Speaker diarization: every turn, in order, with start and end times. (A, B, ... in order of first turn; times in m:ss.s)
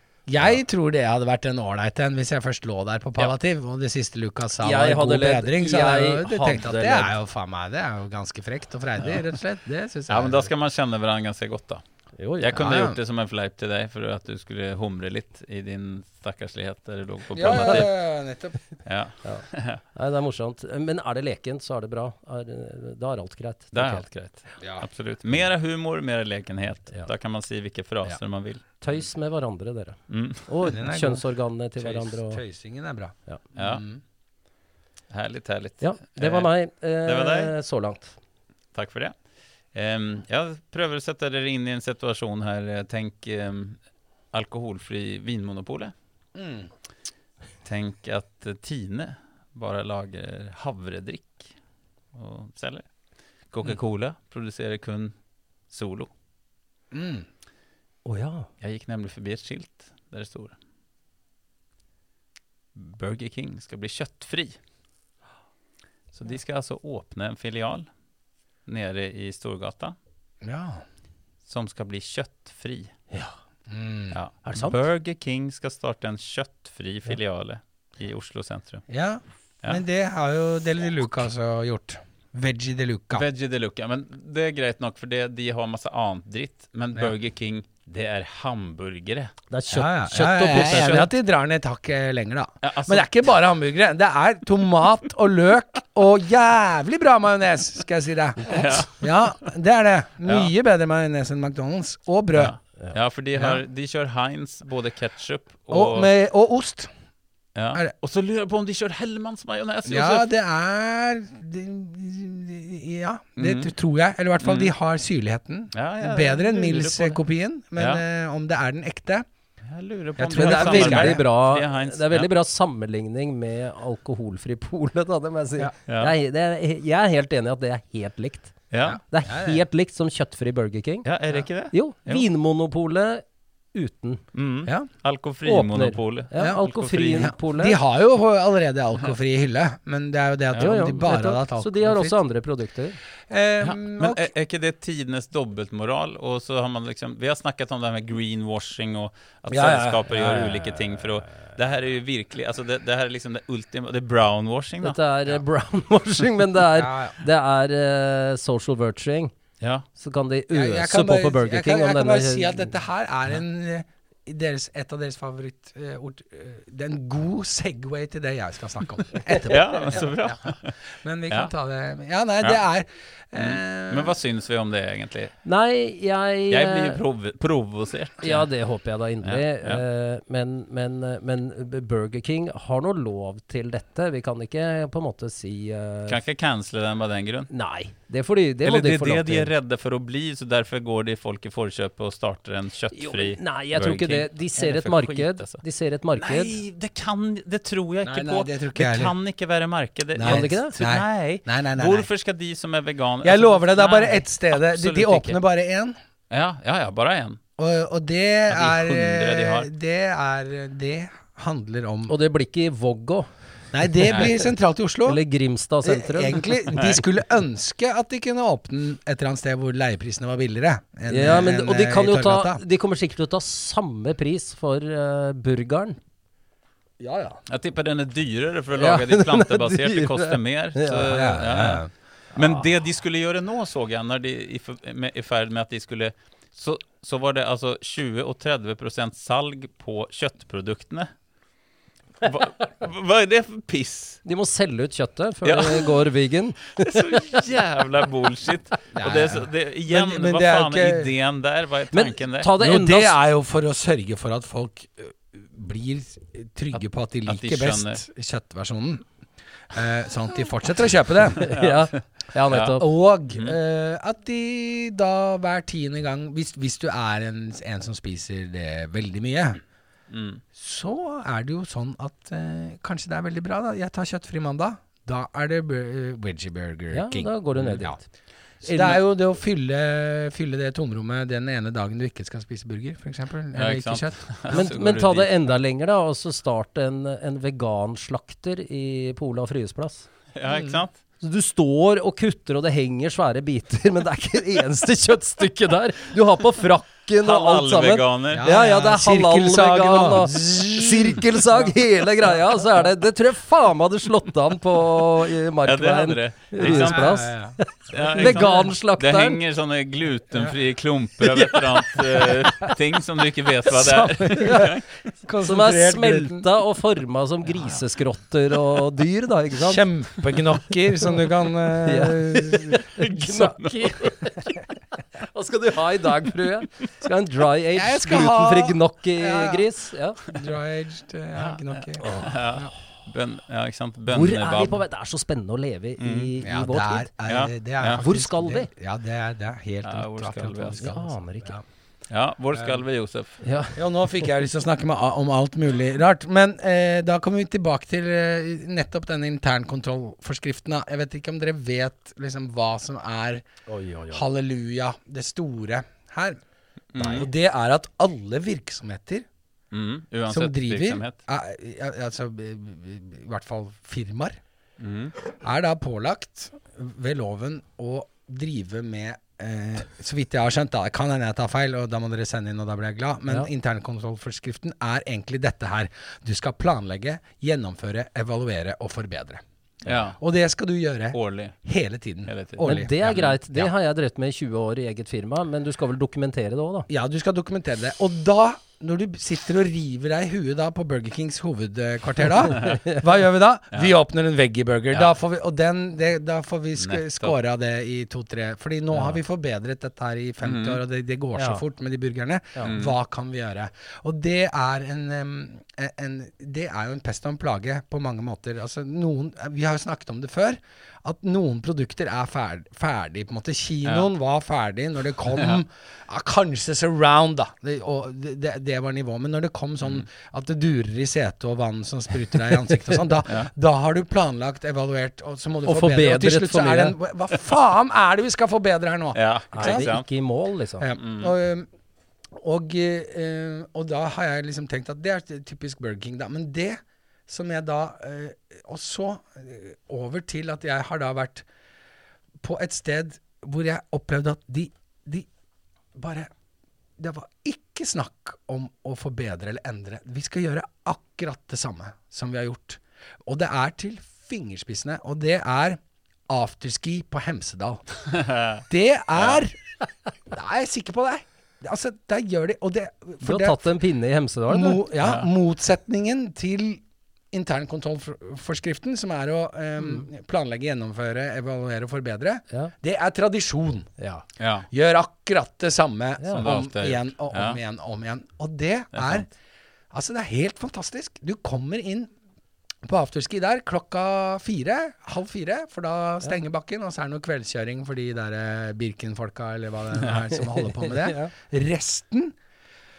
0:00.3-0:10.5 A
0:04.6-0:07.1 B
0:10.1-0:11.8 C
0:12.2-0:12.7 B
0:12.4-0:18.0 C
0:12.6-0:13.0 A
0:17.3-0:18.7 A
0:18.8-0:19.8 C
0:19.2-0:24.0 B
0:23.7-0:28.8 C
0:24.6-0:24.9 A
0:28.8-0:32.4 B
0:30.1-0:30.8 C
0:30.7-0:31.2 A
0:31.8-0:34.0 A
0:33.6-0:33.8 C
0:35.1-0:36.5 C
0:35.8-0:38.2 B
0:37.0-0:37.5 C
0:38.7-0:39.1 C
0:39.7-0:43.8 C
0:44.3-0:45.9 C
0:46.4-0:46.7 A
0:47.6-0:51.5 C
0:52.1-0:52.8 C
0:53.5-0:55.1 C
0:55.7-0:56.1 C
0:56.9-0:57.3 A
0:58.0-0:58.5 B
0:58.6-1:00.6 C
1:02.8-1:04.6 C
1:06.1-1:07.9 C
1:08.7-1:10.0 C
1:10.4-1:10.8 A
1:11.5-1:13.0 C
1:13.7-1:14.2 A
1:14.1-1:18.8 C
1:14.4-1:14.8 B
1:18.9-1:23.2 A
1:23.1-1:29.3 C
1:29.5-1:31.1 B
1:29.7-1:42.6 A
1:32.6-1:33.1 C
1:38.5-1:39.2 C
1:40.3-1:40.5 C
1:42.4-1:46.1 C
1:45.7-1:46.9 A
1:47.6-1:50.3 C
1:49.9-1:59.2 A
1:53.4-1:53.7 C
1:54.4-1:54.7 C
1:55.7-1:57.2 C
1:57.8-1:58.0 C
1:59.7-2:02.3 C
2:00.2-2:01.2 A
2:00.4-2:11.1 B
2:05.9-2:06.1 C
2:08.7-2:09.0 C
2:08.8-2:09.6 A
2:11.0-2:12.3 C
2:11.7-2:14.2 B
2:14.3-2:17.3 C
2:15.4-2:17.8 B
2:17.1-2:22.2 A
2:20.5-2:20.9 C
2:20.6-2:23.0 B
2:23.3-2:24.3 A
2:23.6-2:35.0 C
2:29.5-2:30.6 A
2:34.8-2:39.3 B
2:36.8-2:37.2 A
2:40.0-2:42.7 B
2:40.5-2:54.2 A
2:49.5-2:50.8 C
2:53.3-2:55.3 C
2:55.4-2:57.0 B
2:56.5-2:58.5 C
2:58.2-3:06.2 B
2:59.2-2:59.8 C
3:06.1-3:07.5 C
3:07.5-3:09.5 B
3:08.6-3:15.6 C
3:12.9-3:16.6 B
3:16.2-3:25.4 C
3:18.0-3:19.2 A
3:20.2-3:22.1 A
3:20.2-3:20.8 B
3:23.2-3:26.0 A
3:26.3-3:27.4 C
3:27.6-3:32.1 A
3:28.5-3:29.7 C
3:32.1-3:33.3 B
3:33.7-3:35.2 A
3:34.0-3:34.3 B
3:35.0-3:36.8 B
3:35.8-3:42.6 A
3:36.8-3:37.0 C
3:41.1-3:46.0 B
3:47.0-3:47.4 A
3:47.5-4:01.1 C
3:48.8-3:51.1 B
3:50.9-3:51.9 A
4:02.2-4:04.2 C
4:04.2-4:07.4 B
4:05.4-4:06.0 C
4:06.8-4:12.5 C
4:08.9-4:11.1 A
4:11.9-4:13.2 B
4:12.6-4:19.1 A
4:16.7-4:18.0 C
4:19.7-4:21.6 A
4:21.4-4:22.9 B
4:21.6-4:22.0 C
4:22.5-4:22.8 C
4:22.8-4:29.6 A
4:30.1-4:30.4 C
4:30.6-4:38.0 A
4:36.9-4:38.0 B
4:37.6-4:37.8 C
4:38.6-4:44.7 A
4:38.6-4:39.0 B
4:43.6-4:45.3 C
4:44.5-4:50.1 B
4:50.4-4:51.0 C
4:50.5-4:50.8 A
4:51.2-5:09.4 B
4:57.2-4:58.5 C
4:58.3-5:01.2 A
5:05.6-5:07.2 C
5:06.6-5:07.6 A
5:07.9-5:14.9 C
5:08.1-5:08.6 A
5:11.3-5:12.7 B
5:13.7-5:16.5 A
5:13.8-5:14.6 B
5:15.4-5:19.8 B
5:19.6-5:22.8 A
5:21.8-5:24.6 B
5:23.0-5:24.3 C
5:25.2-5:30.2 B
5:27.7-5:29.7 A
5:30.3-5:32.7 A
5:31.4-5:34.8 C
5:32.0-5:32.4 B
5:34.1-5:37.1 B
5:36.0-5:36.3 C
5:36.4-5:41.6 A
5:37.3-5:38.0 C
5:38.0-5:38.7 B
5:39.8-5:41.0 C
5:40.8-5:41.6 B
5:42.1-5:43.4 C
5:42.5-5:42.8 A
5:43.4-5:43.8 B
5:43.8-5:53.4 A
5:53.7-5:54.2 B
5:54.1-5:56.4 A
5:56.9-5:57.3 C
5:57.0-5:59.3 A
5:59.7-6:01.2 C
6:00.3-6:04.4 A
6:04.8-6:05.2 C
6:05.4-6:23.2 A
6:19.8-6:20.2 C
6:21.1-6:21.6 C
6:22.3-6:23.7 C
6:22.6-6:26.9 B
6:26.9-7:09.9 A
6:32.6-6:32.9 B
6:36.8-6:37.4 C
6:40.4-6:40.8 C
6:41.4-6:41.6 B
6:42.6-6:43.0 C
6:55.4-6:55.6 C
7:05.6-7:07.0 B
7:09.2-7:10.1 C
7:09.5-7:10.9 B
7:10.8-7:11.7 A
7:11.0-7:11.3 C
7:12.4-7:21.4 A
7:22.4-7:25.3 A
7:26.0-7:26.3 A
7:27.0-7:37.8 A
7:38.1-7:38.6 C
7:38.6-7:39.6 A
7:40.3-7:43.8 A
7:43.2-7:44.8 B
7:44.5-7:53.9 A
7:45.0-7:45.3 C
7:54.0-7:54.2 B
7:54.4-7:54.7 C
7:54.7-7:59.3 A
7:56.2-7:56.5 B
7:56.3-7:57.6 C
7:58.9-7:59.3 C
7:59.9-8:02.1 A
8:02.9-8:12.4 A
8:10.8-8:11.3 B